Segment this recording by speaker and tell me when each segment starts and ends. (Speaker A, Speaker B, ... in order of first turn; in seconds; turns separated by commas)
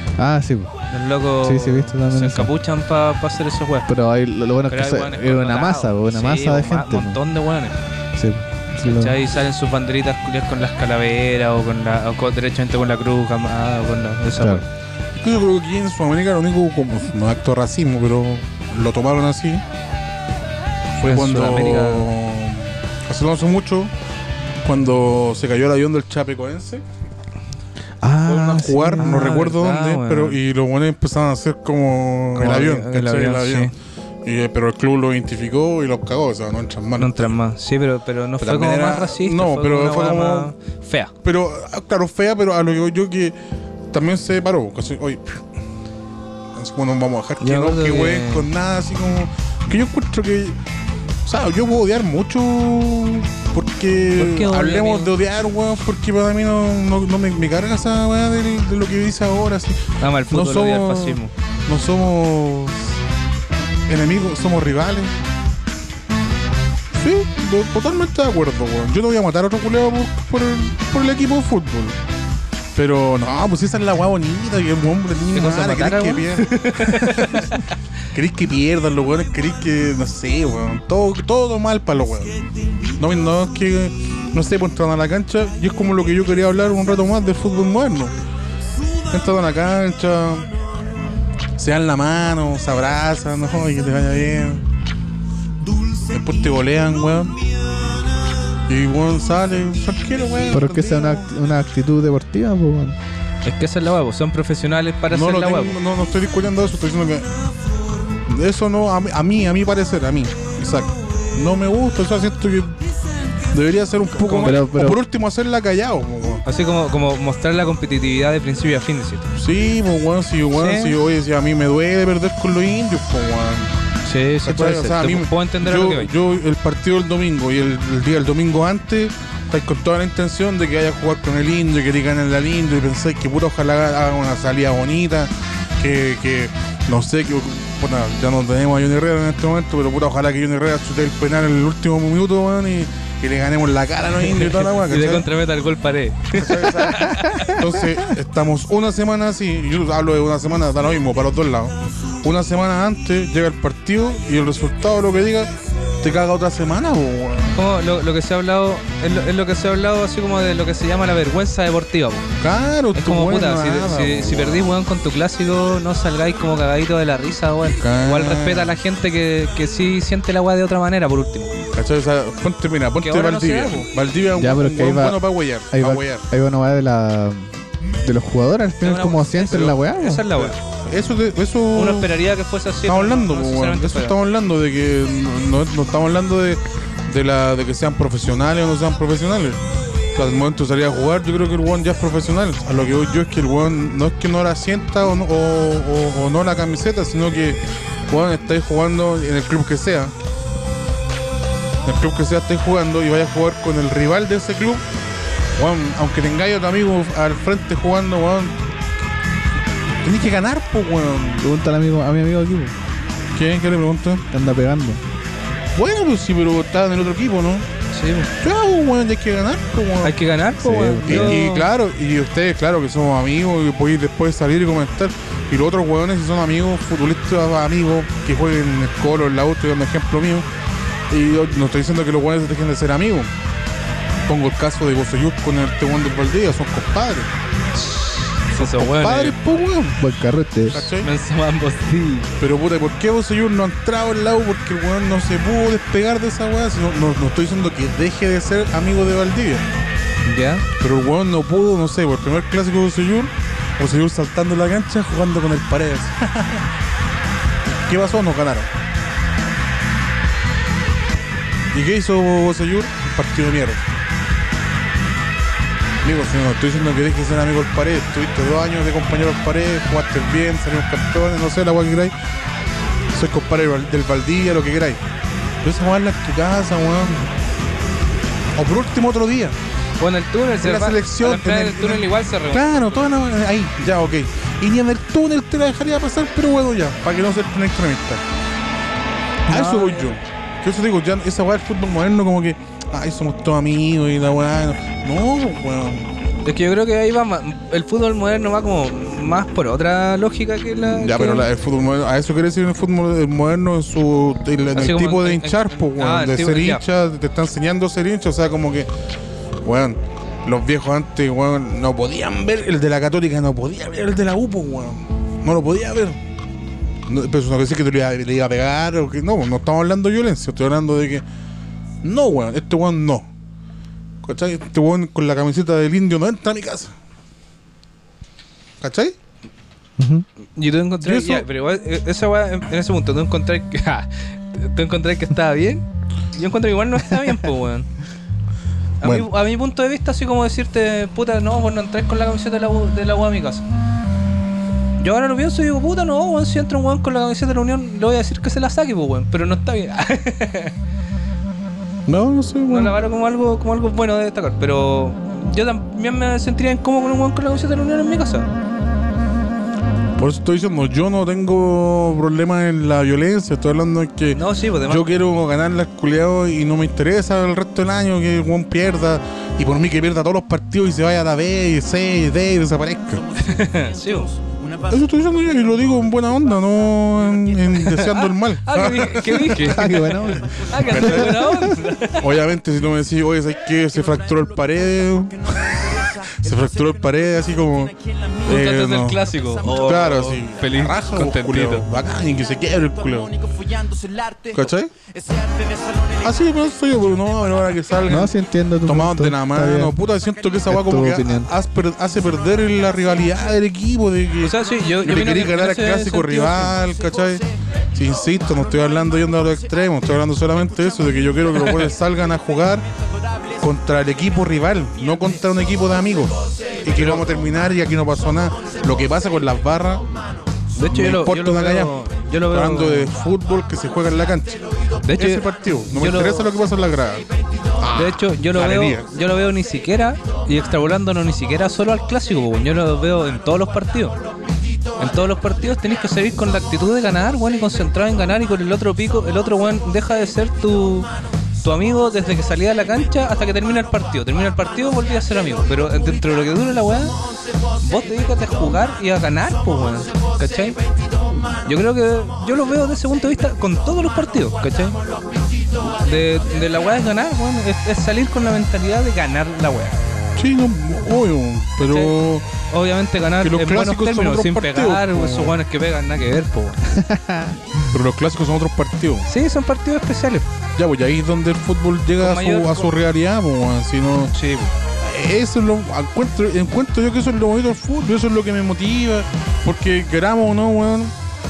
Speaker A: 0.2-0.7, Speaker B: 0.9-3.9, Speaker A: 1.4-2.5, Speaker A: 3.9-7.2, Speaker B: 4.7-7.8, Speaker A: 8.2-9.2, Speaker B: 8.8-14.6, Speaker A: 14.4-14.6, Speaker C: 15.2-19.6, Speaker C: 21.0-23.9, Speaker B: 21.1-22.1, Speaker C: 24.6-26.8, Speaker A: 28.0-29.3, Speaker C: 28.2-33.7, Speaker B: 29.0-30.4, Speaker B: 32.4-33.7, Speaker C: 34.2-37.3, Speaker B: 37.0-41.1, Speaker C: 38.4-40.5, Speaker C: 41.2-43.3, Speaker C: 43.9-45.4, Speaker C: 46.5-50.6, Speaker B: 47.4-48.5, Speaker C: 51.2-63.0, Speaker B: 54.2-55.1, Speaker B: 60.0-61.3, Speaker C: 63.9-65.1, Speaker C: 66.9-72.0, Speaker C: 72.7-77.6, Speaker B: 75.3-77.6, Speaker C: 78.1-82.4, Speaker C: 83.0-88.1, Speaker C: 89.1-90.5, Speaker C: 91.6-94.6, Speaker C: 96.1-97.4, Speaker C: 98.7-101.3, Speaker A: 100.5-103.0, Speaker B: 103.4-105.8, Speaker C: 105.1-107.3, Speaker C: 108.3-112.8, Speaker C: 113.5-116.4, Speaker B: 114.1-114.6, Speaker A: 114.4-115.0, Speaker B: 116.4-119.3, Speaker C: 119.4-123.7, Speaker B: 120.5-121.0, Speaker B: 124.0-126.1, Speaker C: 124.4-145.3, Speaker B: 144.2-147.5, Speaker C: 146.3-157.6, Speaker A: 147.2-147.6, Speaker B: 157.5-162.3, Speaker C: 162.4-164.7, Speaker B: 162.9-171.5, Speaker C: 167.8-168.8, Speaker C: 171.7-176.2, Speaker B: 173.0-173.9, Speaker A: 174.4-180.3, Speaker B: 178.8-180.6, Speaker C: 179.5-179.7, Speaker C: 180.4-182.2, Speaker B: 181.7-184.2, Speaker C: 182.9-189.6, Speaker C: 190.1-200.1, Speaker C: 201.8-204.8, Speaker C: 205.6-208.6, Speaker C: 210.0-211.4, Speaker A: 211.4-212.7, Speaker C: 213.3-214.2, Speaker A: 214.3-215.0, Speaker C: 215.7-217.7, Speaker B: 217.9-218.3, Speaker C: 218.4-220.2, Speaker B: 220.0-221.7, Speaker A: 220.6-221.4, Speaker C: 221.1-230.4, Speaker C: 231.1-233.3, Speaker C: 234.3-237.3, Speaker B: 237.7-239.5, Speaker C: 238.5-240.0, Speaker A: 240.0-240.9, Speaker C: 240.7-241.1, Speaker B: 240.9-242.3, Speaker C: 242.4-249.7, Speaker B: 250.2-250.7, Speaker C: 250.8-256.6, Speaker C: 257.7-258.7, Speaker C: 261.7-263.8, Speaker C: 266.0-272.1, Speaker C: 273.1-275.0, Speaker C: 275.6-277.3, Speaker C: 278.6-279.6, Speaker B: 280.0-282.9, Speaker C: 280.6-288.2, Speaker B: 289.5-290.1, Speaker C: 289.5-296.1, Speaker B: 296.4-301.5, Speaker C: 300.8-308.9, Speaker B: 304.7-306.8, Speaker C: 309.6-316.2, Speaker C: 317.1-321.2, Speaker C: 322.0-323.2, Speaker C: 324.2-326.9, Speaker C: 328.8-329.1, Speaker A: 330.0-330.2, Speaker B: 330.6-337.9, Speaker C: 331.0-331.4, Speaker B: 339.0-343.6, Speaker C: 339.0-339.3, Speaker B: 345.0-350.7, Speaker C: 352.1-352.9, Speaker B: 352.7-358.5, Speaker C: 360.2-373.2, Speaker B: 364.3-365.1, Speaker B: 373.4-374.4, Speaker C: 374.9-379.9, Speaker B: 377.8-380.0, Speaker A: 379.6-381.5, Speaker B: 380.5-382.3, Speaker C: 380.7-381.6, Speaker C: 382.1-393.3, Speaker B: 388.4-391.9, Speaker C: 394.5-394.9, Speaker C: 396.2-398.3, Speaker A: 398.1-399.9, Speaker C: 398.9-412.8, Speaker A: 400.7-401.5, Speaker B: 404.4-406.8, Speaker C: 413.6-420.0, Speaker B: 417.0-417.3, Speaker B: 420.8-423.1, Speaker C: 420.9-424.6, Speaker B: 425.0-426.5, Speaker C: 425.1-427.2, Speaker C: 427.8-429.1, Speaker B: 427.9-434.2, Speaker B: 435.0-441.1, Speaker B: 441.6-447.1, Speaker B: 447.8-450.8, Speaker B: 451.6-455.0, Speaker B: 456.0-460.0, Speaker C: 460.4-462.5, Speaker B: 461.8-462.1, Speaker B: 462.7-466.8, Speaker C: 463.4-465.6, Speaker A: 466.9-467.6, Speaker C: 467.9-469.3, Speaker B: 469.3-470.4, Speaker C: 470.8-474.3, Speaker B: 472.2-472.9, Speaker B: 474.3-474.7, Speaker C: 475.0-481.1